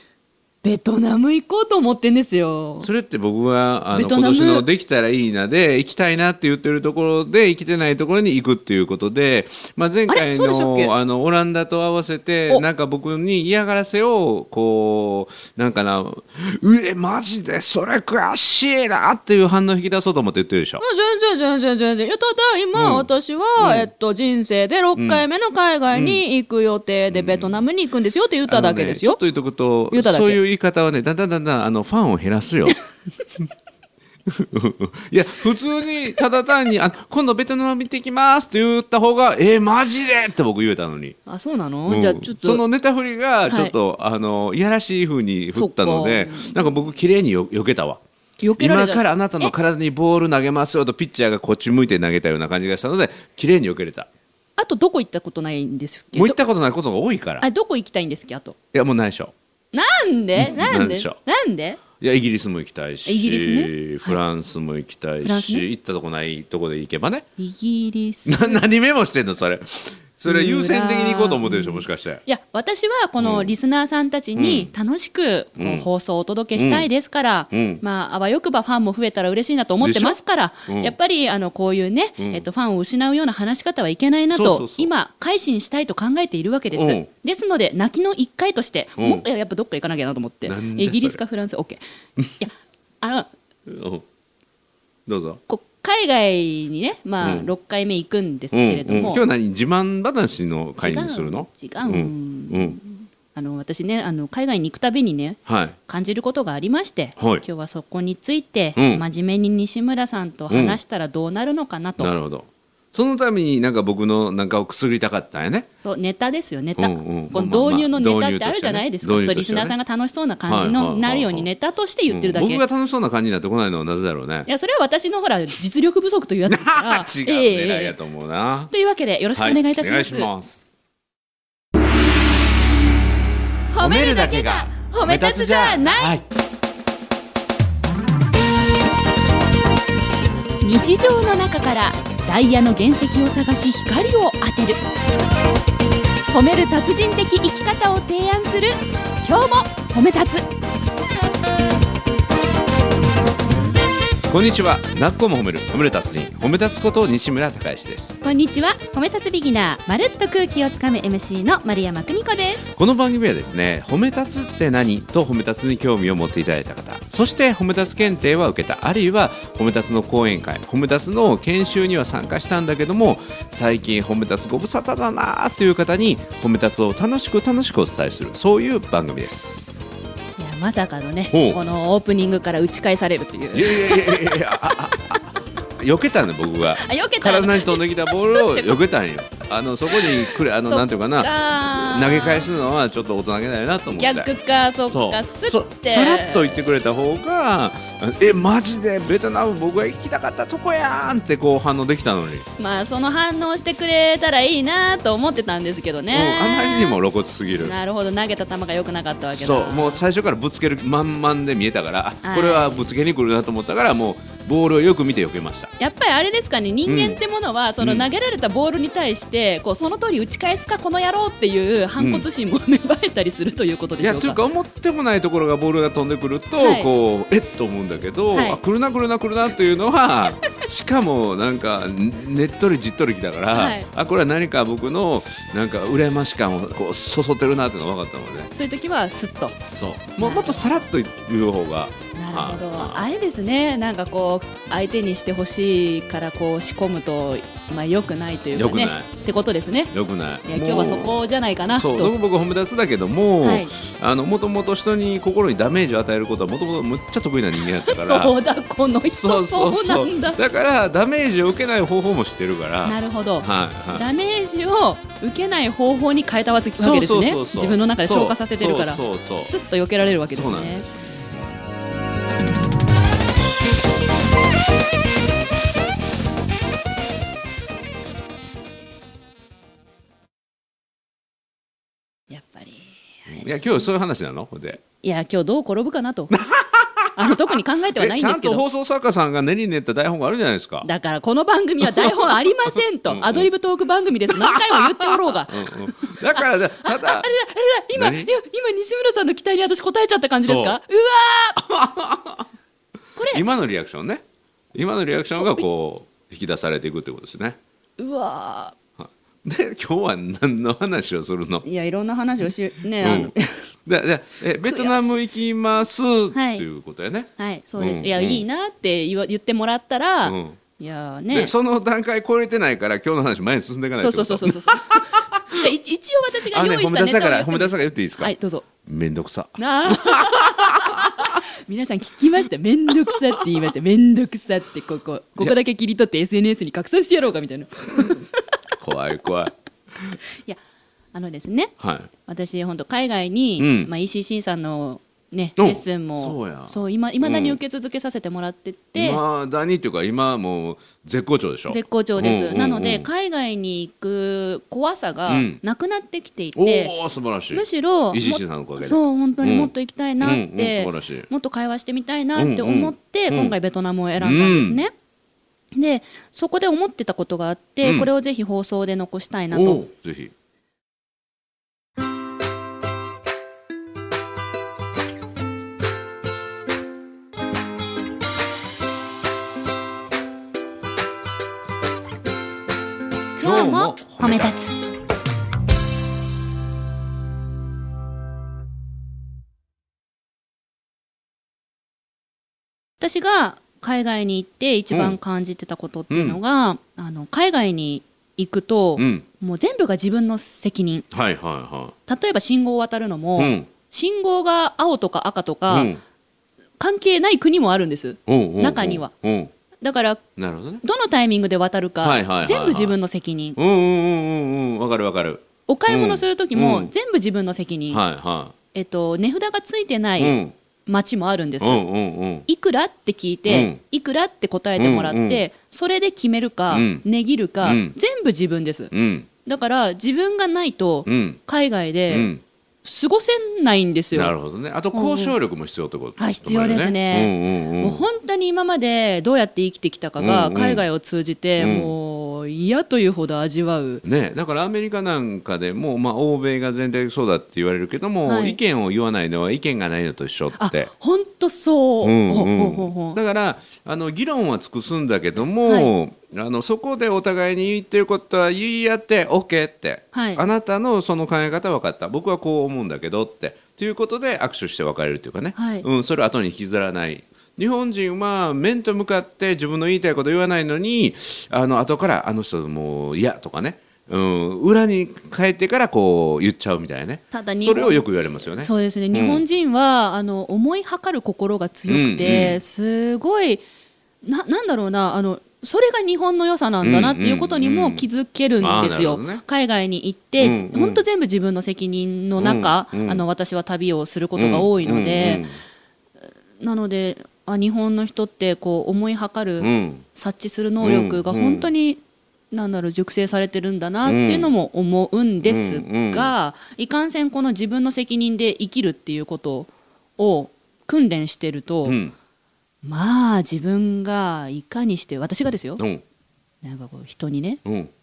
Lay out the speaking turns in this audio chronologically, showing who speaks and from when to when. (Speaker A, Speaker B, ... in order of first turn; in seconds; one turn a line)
Speaker A: 0.6-2.9
Speaker B: 2.8-20.8
Speaker A: 3.9-4.7
Speaker A: 10.1-10.9
Speaker A: 20.8-29.2
Speaker B: 22.7-23.9
Speaker B: 24.9-25.2
Speaker B: 25.9-26.2
Speaker B: 27.1-27.6
Speaker B: 28.5-32.8
Speaker A: 29.9-30.4
Speaker B: 34.2-41.2
Speaker A: 41.2-42.6
Speaker B: 41.9-48.0
Speaker A: 43.5-43.7
Speaker A: 45.5-46.6
Speaker A: 48.4-49.5
Speaker B: 48.6-54.1
Speaker A: 54.6-56.4
Speaker B: 56.1-57.4
Speaker A: 57.4-58.5
Speaker B: 58.7-59.3
Speaker A: 59.7-61.8
Speaker B: 60.4-61.2
Speaker B: 62.0-67.3
Speaker A: 63.0-64.2
Speaker A: 65.2-65.6
Speaker A: 67.4-68.6
Speaker B: 68.2-72.2
Speaker A: 70.2-91.8
Speaker B: 73.2-73.5
Speaker B: 74.3-74.7
Speaker B: 75.6-75.8
Speaker B: 76.5-76.9
Speaker B: 77.5-77.8
Speaker B: 79.8-81.0
Speaker B: 82.2-82.4
Speaker B: 84.3-84.9
Speaker B: 86.7-87.1
Speaker B: 89.0-89.2
Speaker B: 90.5-91.2
Speaker A: 92.4-93.3
Speaker B: 93.7-94.0
Speaker B: 95.1-95.4
Speaker A: 95.5-99.2
Speaker B: 97.2-97.5
Speaker B: 98.5-102.8
Speaker A: 100.8-112.1
Speaker B: 105.5-105.8
Speaker B: 107.2-107.4
Speaker B: 108.8-109.0
Speaker B: 110.5-110.8
Speaker B: 112.0-115.7
Speaker A: 115.8-122.6
Speaker B: 116.8-119.8
Speaker B: 120.5-121.5
Speaker B: 122.1-124.5
Speaker A: 124.5-128.0
Speaker B: 126.5-128.7
Speaker A: 128.7-130.3
Speaker B: 129.3-130.7
Speaker A: 133.7-136.1
Speaker B: 133.8-136.2
Speaker A: 140.6-144.8
Speaker A: 146.3-150.4
Speaker B: 154.3-158.2
Speaker A: 158.2-162.6
Speaker B: 162.8-179.7
Speaker A: 180.4-185.0
Speaker B: 181.3-181.6
Speaker B: 183.5-194.3
Speaker A: 186.8-188.8
Speaker A: 189.9-192.5
Speaker A: 193.9-196.7
Speaker B: 194.9-202.5
Speaker A: 202.6-207.0
Speaker B: 206.1-207.7
Speaker A: 207.6-210.0
Speaker B: 209.3-215.7
Speaker A: 212.2-212.9
Speaker A: 215.8-224.4
Speaker B: 216.8-217.2
Speaker B: 217.8-218.1
Speaker B: 222.0-222.2
Speaker B: 224.0-238.5
Speaker A: 226.6-226.9
Speaker A: 228.3-228.6
Speaker A: 233.5-233.9
Speaker A: 238.5-239.6
Speaker B: 239.7-243.1
Speaker A: 240.2-240.8
Speaker A: 242.1-249.9
Speaker B: 248.5-249.1
Speaker B: 249.9-258.3
Speaker A: 250.4-252.1
Speaker A: 253.4-253.7
Speaker A: 257.6-260.4
Speaker B: 259.1-264.0
Speaker A: 262.8-270.9
Speaker B: 266.8-269.5
Speaker B: 270.3-270.9
Speaker A: 282.3-283.9
Speaker B: 283.3-284.8
Speaker A: 285.0-286.4
Speaker B: 286.3-290.9
Speaker A: 287.1-288.6
Speaker A: 290.8-301.6
Speaker B: 291.8-292.4
Speaker B: 293.1-293.5
Speaker B: 294.4-297.3
Speaker B: 297.9-298.3
Speaker B: 300.4-300.8
Speaker B: 301.6-302.5
Speaker A: 303.1-303.4
Speaker B: 303.3-304.2
Speaker B: 304.7-307.6
Speaker A: 305.4-305.6
Speaker A: 308.0-308.8
Speaker B: 309.0-311.6
Speaker A: 311.6-313.7
Speaker B: 313.0-313.3
Speaker B: 313.9-318.4
Speaker A: 314.6-315.1
Speaker A: 316.3-316.6
Speaker A: 317.4-321.5
Speaker B: 320.2-320.6
Speaker B: 321.3-325.7
Speaker A: 323.9-328.6
Speaker B: 326.5-328.3
Speaker B: 328.8-331.4
Speaker A: 329.6-338.3
Speaker B: 333.1-333.4
Speaker B: 338.8-340.2
Speaker A: 341.1-341.7
Speaker B: 341.8-342.1
Speaker A: 342.2-349.2
Speaker B: 343.6-343.9
Speaker B: 345.6-347.6
Speaker B: 348.9-353.1
Speaker A: 351.7-356.9
Speaker B: 355.3-355.6
Speaker B: 356.6-361.3
Speaker A: 357.5-364.9
Speaker B: 362.3-363.5
Speaker B: 364.2-364.8
Speaker A: 365.7-369.8
Speaker B: 367.8-368.1
Speaker B: 369.5-370.3
Speaker A: 383.4-384.8
Speaker B: 383.4-384.5
Speaker A: 393.0-401.1
Speaker B: 394.9-395.2
Speaker B: 396.1-396.4
Speaker B: 399.0-399.2
Speaker B: 401.1-401.9
Speaker A: 402.1-405.9
Speaker B: 403.4-403.7
Speaker B: 405.7-406.0
Speaker A: 406.8-409.1
Speaker B: 408.3-409.5
Speaker A: 409.8-410.2
Speaker B: 410.4-410.8
Speaker A: 410.8-413.6
Speaker B: 412.0-412.9
Speaker B: 413.6-416.9
Speaker A: 415.7-418.0
Speaker B: 417.9-418.5
Speaker A: 418.7-421.8
Speaker B: 420.2-420.5
Speaker B: 421.6-422.4
Speaker A: 422.5-428.9
Speaker B: 423.5-423.8
Speaker B: 424.8-425.4
Speaker B: 426.7-427.0
Speaker B: 427.6-427.9
Speaker B: 428.9-429.3
Speaker A: 429.4-432.3
Speaker B: 431.1-431.4
Speaker B: 432.1-432.4
Speaker A: 432.8-434.3
Speaker B: 434.1-438.0
Speaker A: 434.9-435.3
Speaker A: 436.2-444.0
Speaker B: 440.2-440.9
Speaker B: 441.6-441.9
Speaker B: 444.0-450.9
Speaker A: 448.2-448.6
Speaker A: 450.6-453.2
Speaker B: 452.0-479.4
Speaker A: 455.6-455.9
Speaker A: 460.1-460.4
Speaker A: 465.6-465.9
Speaker A: 477.3-483.6
Speaker B: 481.9-482.6
Speaker A: 484.2-495.4
Speaker B: 486.8-488.0
Speaker B: 488.6-489.4
Speaker B: 490.4-491.0
Speaker B: 492.4-493.2
Speaker B: 494.3-495.6
Speaker A: 496.6-502.0
Speaker B: 499.6-500.0
Speaker B: 500.8-501.7
Speaker A: 502.5-512.0
Speaker B: 504.0-504.5
Speaker B: 505.4-506.3
Speaker B: 511.8-512.1
Speaker A: 512.8-515.8
Speaker A: 516.6-517.6
Speaker B: 517.6-517.9